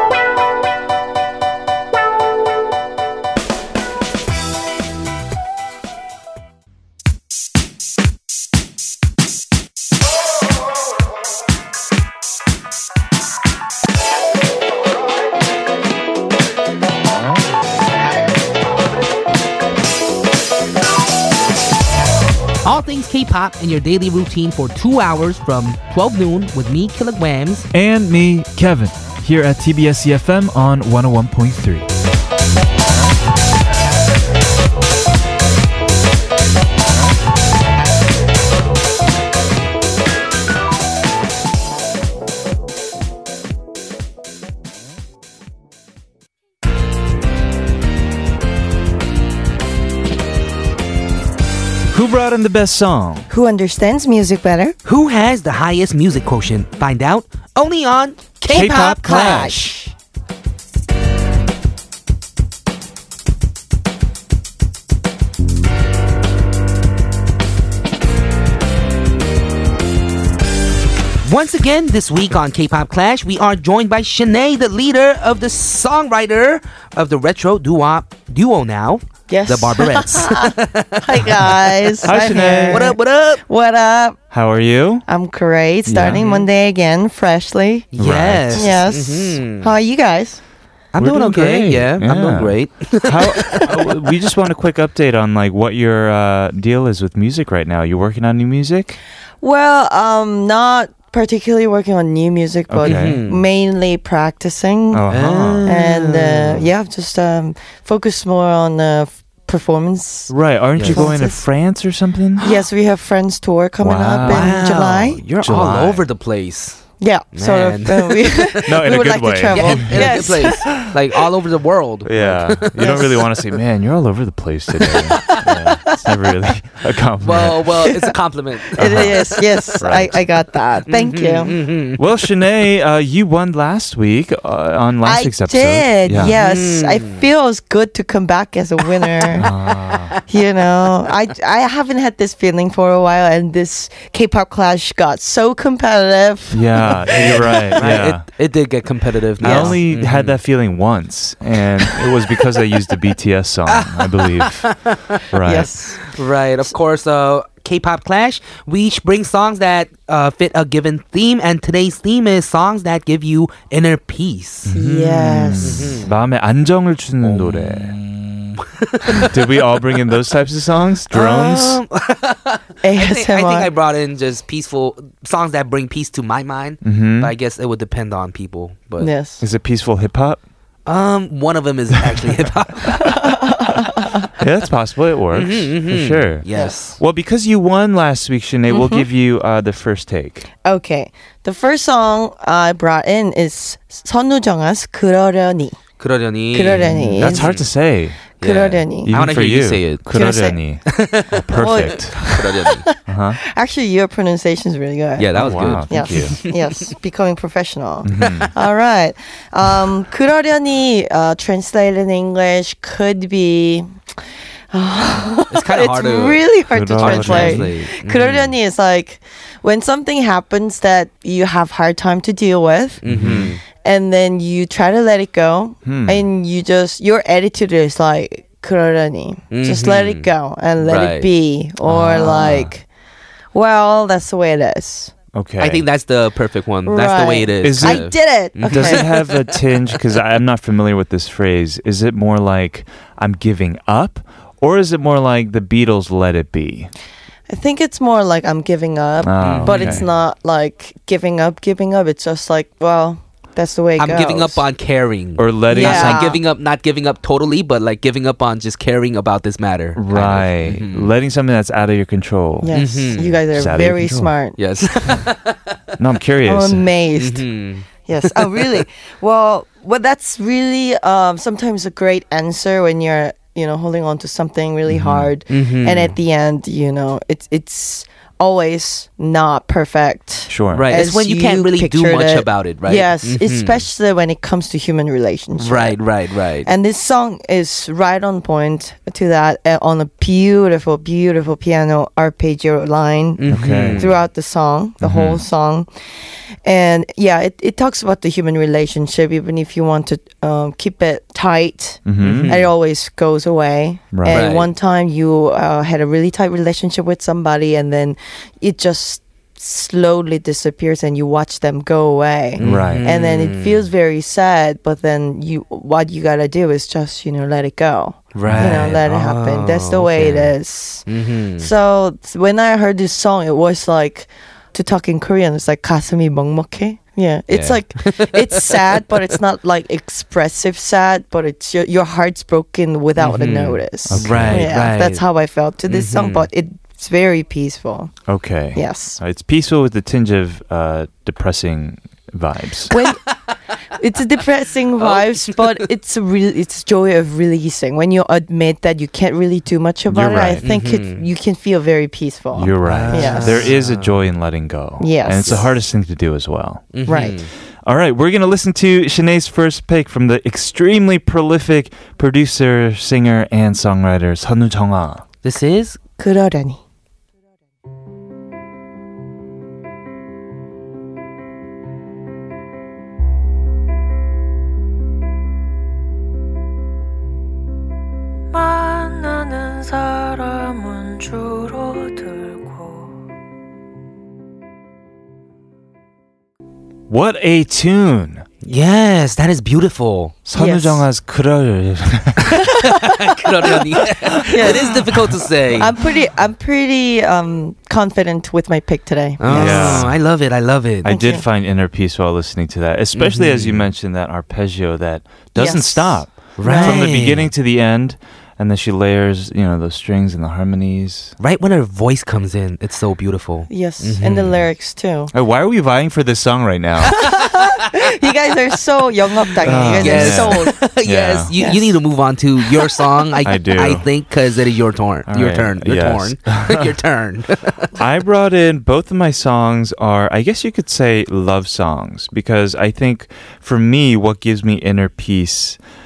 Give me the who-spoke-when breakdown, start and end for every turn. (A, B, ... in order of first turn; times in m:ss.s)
0:22.6-0:27.7 A
0:27.7-0:31.9 B
0:51.9-0:53.3 B
0:53.3-0:54.8 C
0:54.8-0:59.4 A
0:58.5-0:59.6 B
0:58.5-0:59.9 C
1:11.2-1:23.4 A
1:19.3-1:24.2 C
1:22.0-1:22.9 B
1:24.3-1:25.0 B
1:25.1-1:27.9 C
1:25.9-1:26.2 B
1:26.1-1:26.5 A
1:27.9-1:29.7 A
1:28.0-1:28.8 B
1:28.5-1:30.4 C
1:30.9-1:33.9 A
1:31.0-1:39.0 B
1:39.4-1:45.0 C
1:42.7-1:43.2 B
1:42.8-1:43.4 A
1:44.9-1:45.7 B
1:45.1-1:46.7 A
1:45.6-1:50.3 C
1:50.3-1:52.4 B
1:50.8-1:51.2 A
1:50.9-1:51.4 C
1:52.4-1:55.2 C
1:53.8-1:54.6 B
1:54.3-1:58.8 A
1:55.4-1:56.1 B
1:57.0-2:00.8 C
1:58.6-2:00.9 B
1:59.5-2:03.1 A
2:02.0-2:07.8 B
2:02.8-2:03.2 C
2:04.9-2:05.9 C
2:07.2-2:09.3 A
2:08.8-2:11.6 C
2:08.8-2:10.2 B
2:10.9-2:12.0 A
2:12.0-2:16.3 B
2:15.0-2:19.5 C
2:16.3-2:17.3 A
2:18.9-2:20.4 A
2:19.4-2:20.2 B
2:20.3-2:27.3 C
2:26.5-2:28.2 B
2:26.8-2:30.4 A
2:29.4-2:34.8 B
2:29.4-2:29.8 C
2:31.8-2:32.6 A
2:33.7-2:35.2 A
2:35.3-2:35.7 B
2:35.4-2:36.0 C
2:36.0-2:44.7 A
2:44.6-2:48.0 B
2:44.7-2:45.9 C
2:45.6-2:46.1 A
2:47.2-2:50.0 A
2:49.1-2:51.8 B
2:51.1-2:59.1 A
2:52.8-2:53.7 C
2:56.8-2:57.3 B
2:59.0-2:59.4 C
2:59.4-3:00.4 B
3:00.9-3:03.3 A
3:03.0-3:04.2 C
3:04.4-3:10.5 B
3:05.3-3:07.0 A
3:08.7-3:09.1 C
3:10.6-3:15.8 C
3:16.0-3:17.7 A
3:16.5-3:17.5 C
3:16.7-3:18.2 B
3:18.4-3:20.2 A
3:18.4-3:19.1 C
3:19.1-3:22.2 B
3:20.1-3:20.6 C
3:20.9-3:22.8 A
3:21.6-3:34.2 C
3:23.1-3:23.4 B
3:25.2-3:26.8 A
3:25.4-3:26.4 B
3:28.0-3:28.5 B
3:28.2-3:28.5 A
3:34.7-3:43.0 C
3:35.5-3:36.5 A
3:36.7-3:37.7 B
3:37.0-3:38.6 A
3:43.0-3:43.6 A
3:43.1-3:43.5 B
3:43.8-3:52.9 C
3:45.8-3:46.3 B
3:49.5-3:50.3 A
3:50.8-3:51.3 A
3:51.8-3:52.7 B
3:53.5-3:55.1 C
3:55.3-3:55.9 B
3:55.6-4:00.0 A
3:56.9-3:59.0 C
3:57.6-4:06.9 B
4:07.5-4:14.6 C
4:09.2-4:10.0 B
4:09.4-4:10.1 A
4:14.0-4:21.1 A
4:15.4-4:16.4 B
4:15.7-4:16.4 C
4:20.0-4:24.3 B
4:22.6-4:24.6 C
4:22.7-4:23.4 A
4:24.6-4:25.8 A
4:26.0-4:26.9 B
4:26.5-4:27.5 C
4:27.2-4:28.8 A
4:28.1-4:46.0 C
4:34.9-4:35.3 B
4:35.5-4:36.2 A
4:40.5-4:40.9 B
4:40.7-4:43.8 A
4:45.6-4:46.7 A
4:46.6-4:55.9 C
4:53.4-4:54.1 A
4:53.5-4:54.1 B
4:55.0-4:55.4 B
4:56.6-5:21.0 C
5:02.1-5:02.6 B
5:02.2-5:02.7 A
5:04.1-5:04.5 B
5:04.3-5:04.7 A
5:12.6-5:13.9 A
5:12.6-5:13.1 B
5:18.4-5:21.7 A
5:18.4-5:19.0 B
5:21.6-5:38.1 C
5:27.5-5:29.2 A
5:33.2-5:35.2 A
5:34.1-5:34.8 B
5:35.9-5:36.5 A
5:38.3-5:42.9 B
5:38.8-5:39.2 C
5:42.9-5:43.2 C
5:44.0-5:53.6 C
5:45.0-5:45.8 A
5:50.1-5:50.6 B
5:50.6-5:51.2 A
5:52.5-5:57.2 B
5:52.8-5:54.2 A
5:55.0-5:55.6 C
5:55.3-5:55.7 A
5:56.9-5:57.5 A
5:57.1-5:57.4 C
5:57.8-6:05.2 B
6:05.4-6:06.0 A
6:06.2-6:06.8 C
6:27.1-6:28.4 B
6:28.6-6:30.4 A
6:30.5-6:32.6 B
6:30.6-6:31.0 C
6:32.5-6:33.4 C
6:32.8-6:35.9 A
6:34.2-6:35.3 B
6:34.5-6:35.0 C
6:35.8-6:40.1 C
6:39.4-6:41.1 A
6:39.5-6:40.2 B
6:41.0-6:51.4 B
6:41.1-6:41.4 C
6:43.2-6:43.9 A
6:45.6-6:47.0 C
6:46.6-6:47.5 A
6:51.4-6:54.6 A
6:53.7-6:55.3 C
6:55.3-6:57.2 B
6:57.2-7:00.7 C
6:59.6-7:01.5 B
7:00.0-7:07.9 A
7:01.6-7:02.0 C
7:03.4-7:04.1 B
7:05.3-7:07.0 B
7:08.0-7:15.8 B